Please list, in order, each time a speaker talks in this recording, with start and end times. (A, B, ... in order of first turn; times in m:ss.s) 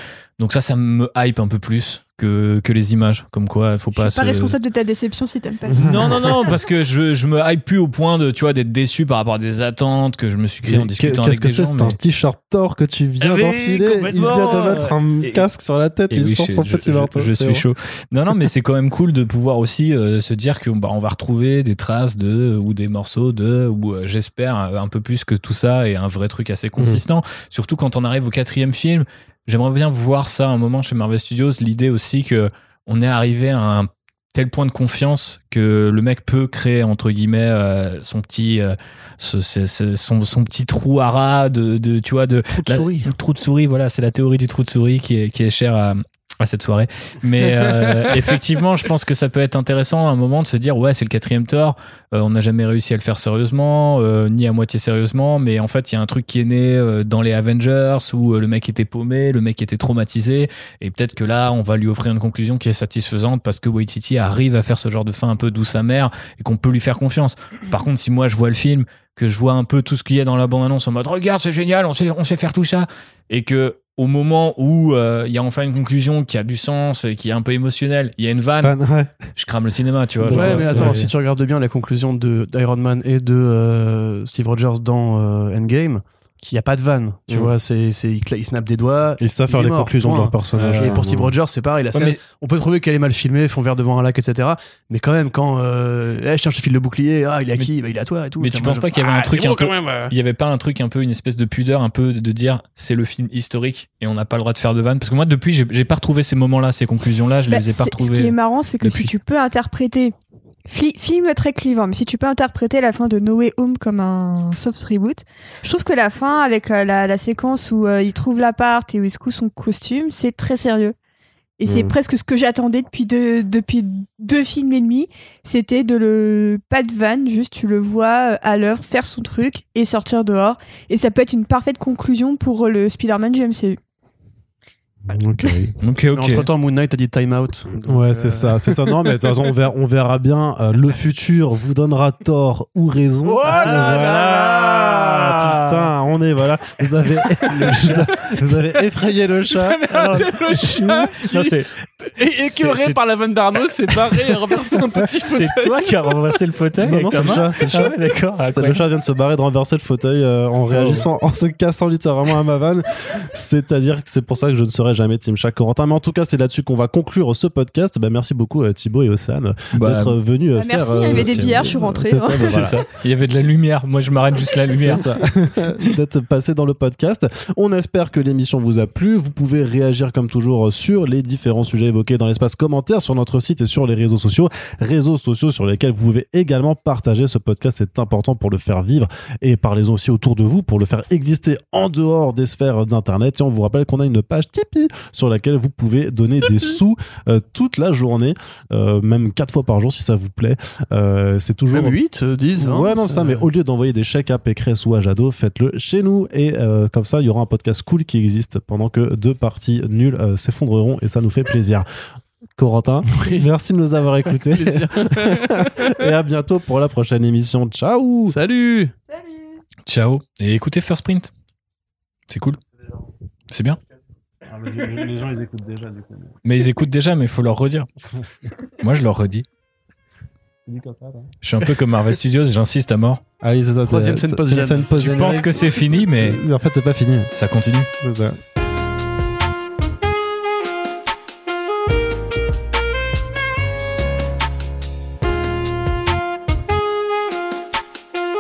0:00.4-0:04.6 A
0:04.0-0:06.5 B
0:05.7-0:12.0 A
0:05.8-0:06.2 C
0:10.6-0:17.6 C
0:13.2-0:15.4 A
0:16.1-1:18.8 A
0:26.8-0:27.0 C
0:42.5-0:43.1 D
1:18.6-1:19.2 C
1:19.4-1:21.0 A
1:20.2-1:21.1 C
1:20.3-1:40.1 D
1:29.2-1:31.3 C
1:30.6-1:31.0 A
1:31.9-1:32.2 A
1:38.4-1:49.1 A
1:47.5-1:50.1 B
1:50.7-2:01.0 B
2:01.6-2:13.8 B
2:01.7-2:01.9 C
2:15.1-2:15.7 C
2:15.8-2:16.5 A
2:16.1-2:19.1 D
2:17.9-2:31.1 C
2:23.2-2:24.2 D
2:23.5-2:25.9 A
2:27.4-2:27.8 D
2:27.6-2:28.1 A
2:29.5-2:36.2 D
2:30.2-2:30.6 A
2:31.2-2:31.8 A
2:32.4-2:33.0 A
2:33.9-2:38.8 A
2:36.8-2:37.9 C
2:38.5-2:52.8 C
2:40.7-2:41.0 A
2:49.7-2:50.2 A
2:50.6-2:52.7 B
2:52.4-2:55.1 A
2:54.8-3:22.0 C
3:21.7-3:23.5 D
3:22.6-3:31.9 C
3:32.6-3:38.4 C
3:33.1-3:33.5 D
3:34.4-3:35.9 D
3:38.3-3:38.9 D
3:39.9-3:41.3 A
3:42.3-3:42.6 A
3:43.5-3:43.8 A
3:44.5-3:46.3 C
3:46.4-3:47.9 A
3:48.8-3:49.4 A
3:50.7-3:51.3 C
3:51.4-3:53.2 A
3:53.4-3:57.3 C
3:53.8-3:55.8 D
3:55.0-3:56.4 A
3:57.3-3:57.9 A
3:58.0-3:58.4 C